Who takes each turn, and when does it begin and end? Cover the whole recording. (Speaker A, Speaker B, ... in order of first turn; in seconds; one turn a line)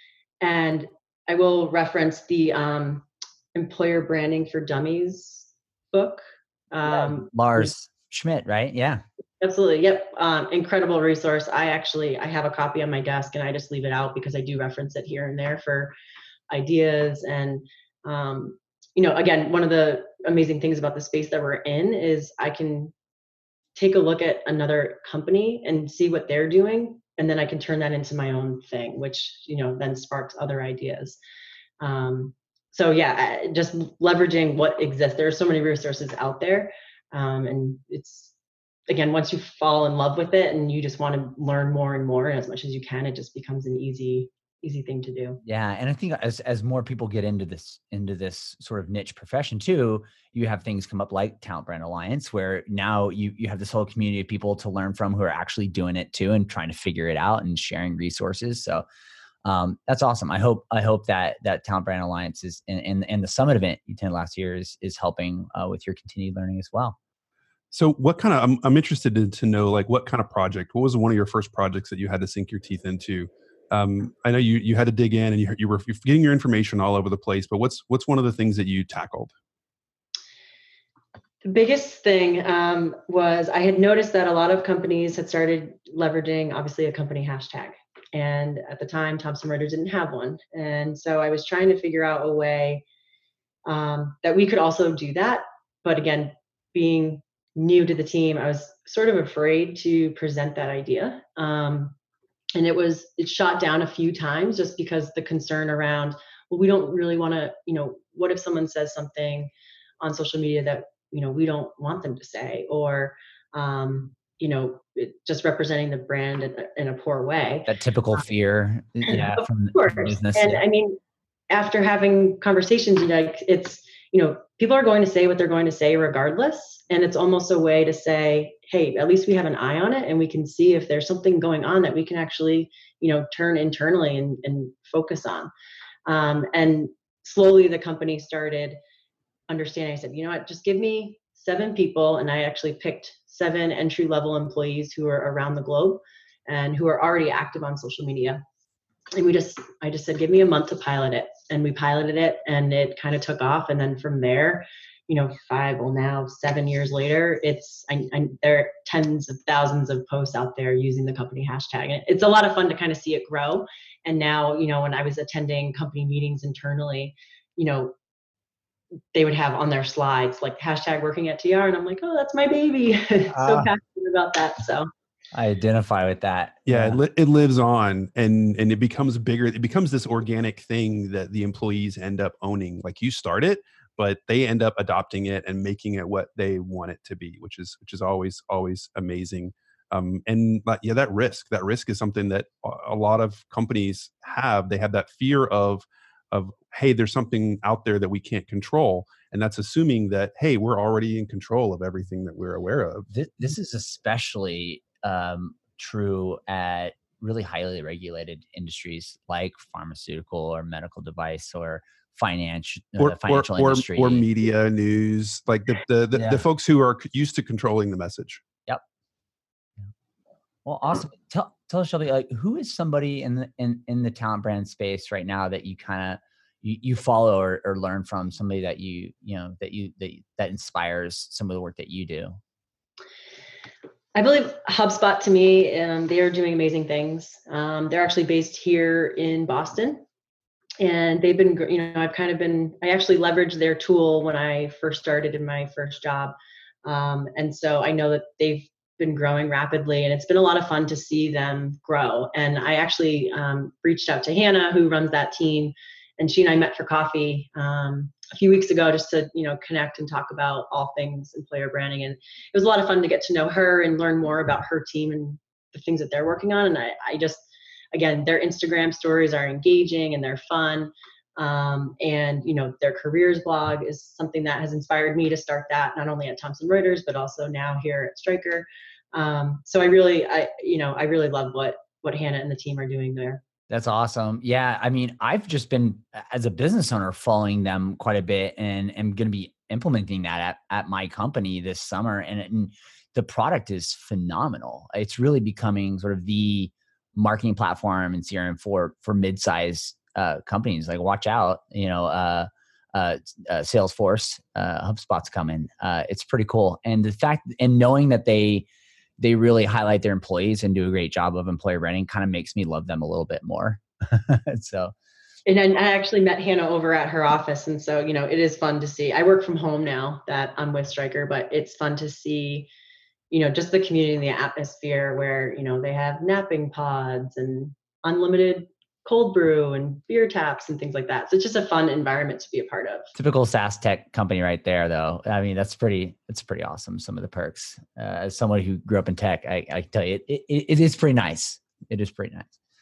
Speaker A: 0.4-7.7
Speaker B: 6.8-9.0
Speaker A: 9.4-15.9
Speaker A: 16.5-22.9
Speaker A: 23.8-31.2
Speaker A: 31.8-38.3
Speaker A: 38.9-45.4
Speaker B: 45.4-58.8
Speaker B: 59.4-67.0
Speaker C: 67.7-79.3
Speaker A: 81.4-92.8
Speaker A: 93.7-101.9
Speaker A: 102.5-118.2
Speaker B: 117.7-120.6
Speaker A: 119.0-121.0
Speaker A: 121.5-135.5
Speaker A: 136.1-138.8
Speaker A: 139.5-148.4
Speaker A: 149.1-167.9
Speaker A: 169.1-174.9
Speaker B: 173.3-173.7
Speaker B: 175.3-177.0
Speaker C: 176.7-203.1
Speaker B: 203.1-214.2
Speaker C: 213.0-218.4
Speaker B: 216.1-216.4
Speaker B: 220.6-232.4
Speaker A: 234.1-240.0
Speaker A: 240.8-283.4
Speaker B: 283.7-308.6
Speaker B: 309.2-314.9
Speaker A: 315.4-322.7
Speaker A: 323.3-333.1
Speaker B: 333.1-342.5